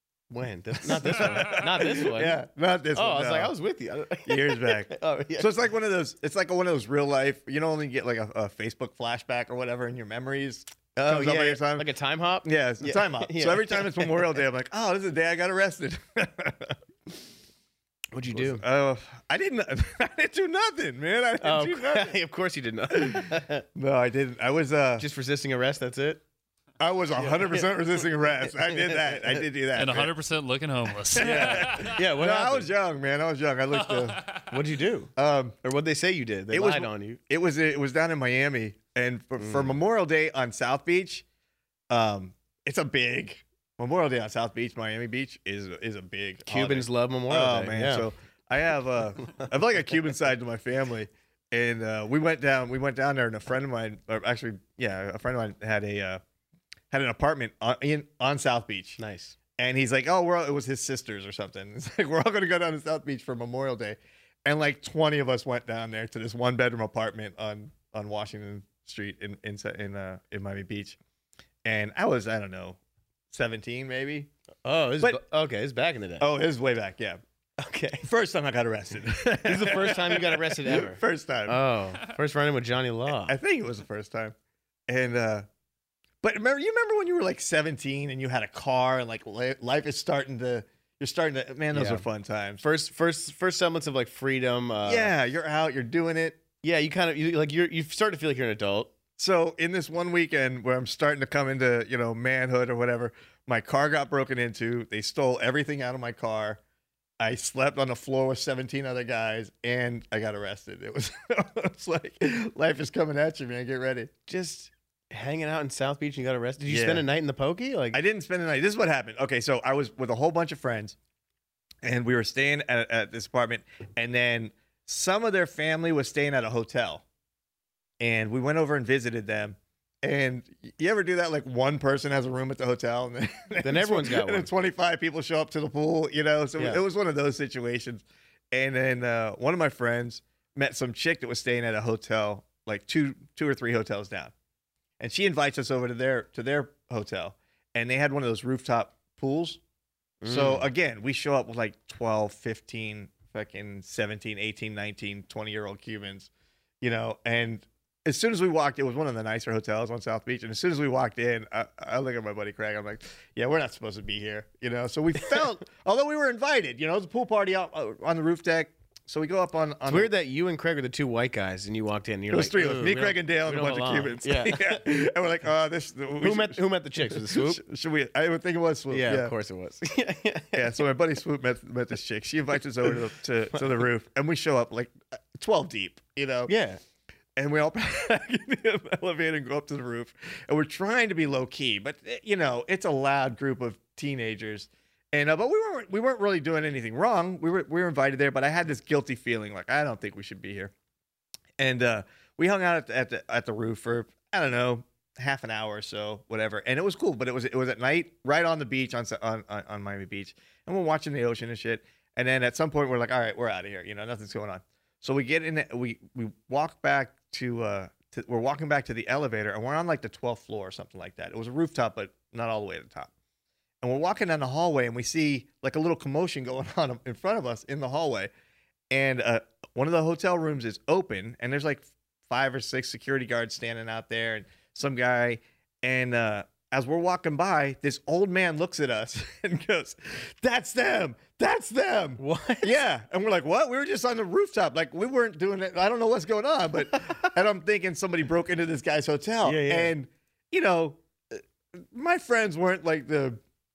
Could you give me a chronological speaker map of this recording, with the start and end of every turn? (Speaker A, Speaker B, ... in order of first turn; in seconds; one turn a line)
Speaker A: 0.3-2.4
Speaker B: 0.8-3.5
Speaker A: 3.0-5.5
Speaker B: 4.3-11.9
Speaker A: 11.0-14.3
Speaker B: 12.4-16.8
Speaker A: 18.1-18.6
Speaker B: 18.3-22.2
Speaker A: 21.4-23.7
Speaker B: 22.9-25.1
Speaker A: 25.0-26.2
Speaker B: 26.8-30.1
Speaker A: 27.2-27.7
Speaker A: 28.5-29.4
Speaker C: 29.8-32.0
Speaker B: 31.1-34.2
Speaker A: 31.2-32.7
Speaker C: 33.7-34.6
Speaker A: 34.5-35.1
Speaker B: 35.2-35.6
Speaker A: 35.6-37.2
Speaker B: 36.5-41.2
Speaker A: 39.4-39.8
Speaker B: 41.9-56.2
Speaker A: 46.4-48.1
Speaker B: 56.9-59.0
Speaker A: 59.0-59.4
Speaker B: 59.6-71.0
Speaker B: 71.6-72.8
Speaker B: 73.3-74.3
Speaker A: 74.7-76.3
Speaker B: 76.2-77.2
Speaker A: 77.6-78.1
Speaker B: 78.0-81.6
Speaker A: 79.4-83.4
Speaker B: 83.2-84.3
Speaker B: 84.9-85.5
Speaker B: 86.2-92.6
Speaker A: 91.7-92.0
Speaker A: 92.6-95.1
Speaker B: 94.9-96.4
Speaker A: 96.6-98.9
Speaker B: 99.2-106.6
Speaker B: 107.2-114.1
Speaker A: 114.3-118.0
Speaker B: 116.7-117.0
Speaker B: 117.9-121.0
Speaker B: 121.8-127.0
Speaker B: 128.0-144.3
Speaker A: 133.6-134.5
Speaker A: 136.6-136.8
Speaker B: 145.0-149.6
Speaker A: 150.2-150.7
Speaker B: 150.2-156.3
Speaker B: 156.8-170.1
Speaker A: 169.9-174.8
Speaker B: 172.3-179.3
Speaker A: 176.2-177.6
Speaker A: 178.9-180.8
Speaker B: 180.5-186.5
Speaker A: 186.5-186.8
Speaker B: 187.4-200.7
Speaker B: 201.6-223.1
Speaker B: 223.8-228.3
Speaker B: 228.9-253.4
Speaker A: 242.2-242.7
Speaker A: 249.4-249.9